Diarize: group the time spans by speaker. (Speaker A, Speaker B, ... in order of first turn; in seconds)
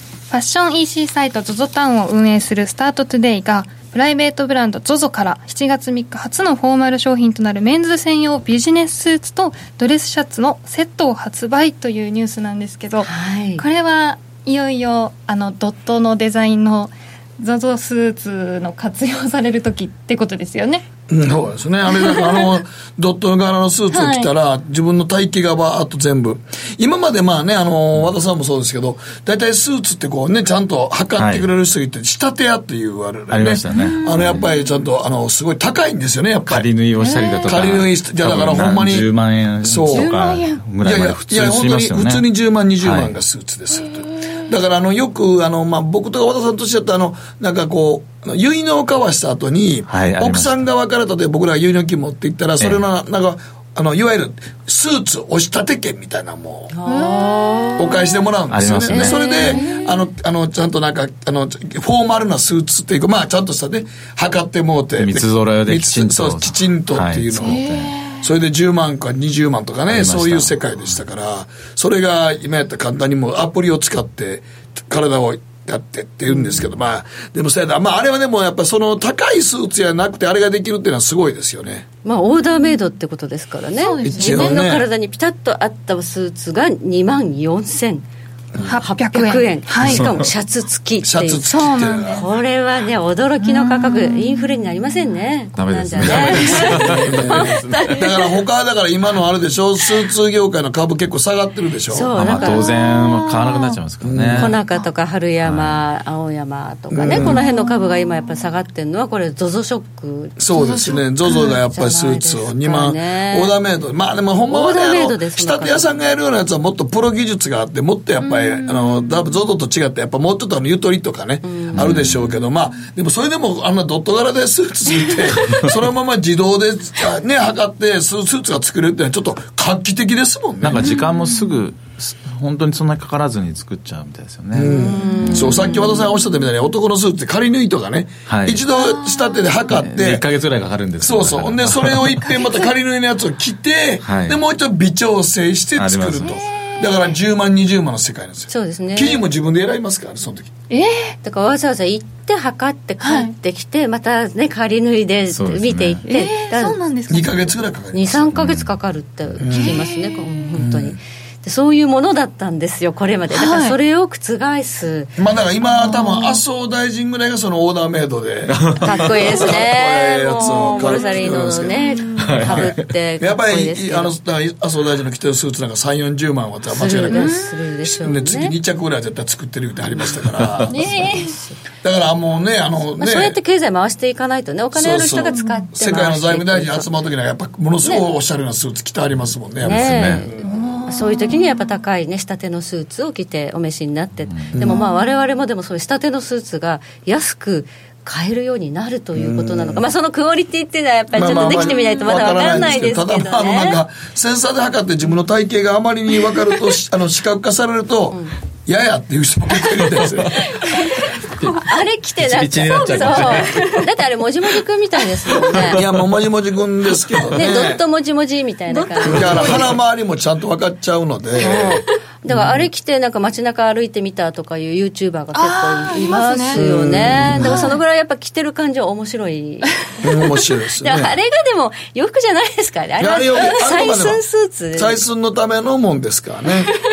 Speaker A: 0.3-20.8, 22.0-22.4, 23.9-24.3, 33.7-34.4, 37.0-37.5, 39.9-40.6, 56.9-57.7, 67.5-68.2, 83.8-84.6, 88.6-90.1, 91.5-92.2, 93.4-94.6, 102.9-103.6, 107.1-108.4, 110.5-111.5, 118.3-119.0, 138.9-139.4, 150.7-151.1, 153.0-153.3, 156.0-157.6, 159.5-160.3, 163.3-163.8, 165.6-166.4, 170.4-171.1, 171.8-172.3, 177.1-177.5, 180.7-181.4, 185.2-185.7, 190.4-191.7, 194.7-195.1, 201.6-202.4, 218.7-219.6, 225.4-226.6, 227.3-227.7
Speaker B: 13.0-13.6, 56.7-58.0, 58.9-59.9, 76.3-76.6, 82.0-88.0, 88.8-91.6, 92.1-98.3, 101.9-103.0, 104.3-110.4, 111.3-113.5, 114.5-115.9, 121.4-122.0, 134.6-135.6, 148.5-149.2, 151.2-156.8, 157.9-165.1, 168.8-174.1, 176.7-178.5, 180.9-181.6, 183.0-186.9, 189.6-190.3, 190.8-203.8, 210.7-215.8, 217.3-219.7, 221.4-235.0
Speaker C: 21.1-36.7, 37.4-39.1, 39.6-40.1, 40.8-56.7, 57.8-81.8, 84.0-84.9, 91.0-92.2, 96.0-102.1, 104.0-104.6, 106.9-107.4, 110.4-130.9, 134.5-140.2, 141.0-150.5, 157.1-158.3, 159.4-159.8, 160.6-161.0, 165.2-181.1, 181.8-183.4, 184.7-190.8, 194.5-194.8, 199.1-199.9, 201.1-210.5, 215.7-217.8, 219.0-222.6, 226.5-227.7, 230.0-231.1, 233.0-234.2, 234.7-236.7
Speaker D: 31.2-31.5, 33.3-34.5, 36.5-42.2, 42.8-43.1, 49.9-50.6, 58.5-59.5, 65.0-68.0, 69.9-71.0, 89.8-90.2, 95.5-98.0, 102.1-104.6, 105.4-105.8, 121.7-122.1, 130.6-135.7, 138.3-138.6, 139.7-142.2, 144.0-144.4, 145.8-146.4, 155.3-156.0, 158.3-158.7, 168.5-169.4, 172.2-172.8, 180.4-180.7, 189.6-190.3, 194.3-194.6, 211.4-213.8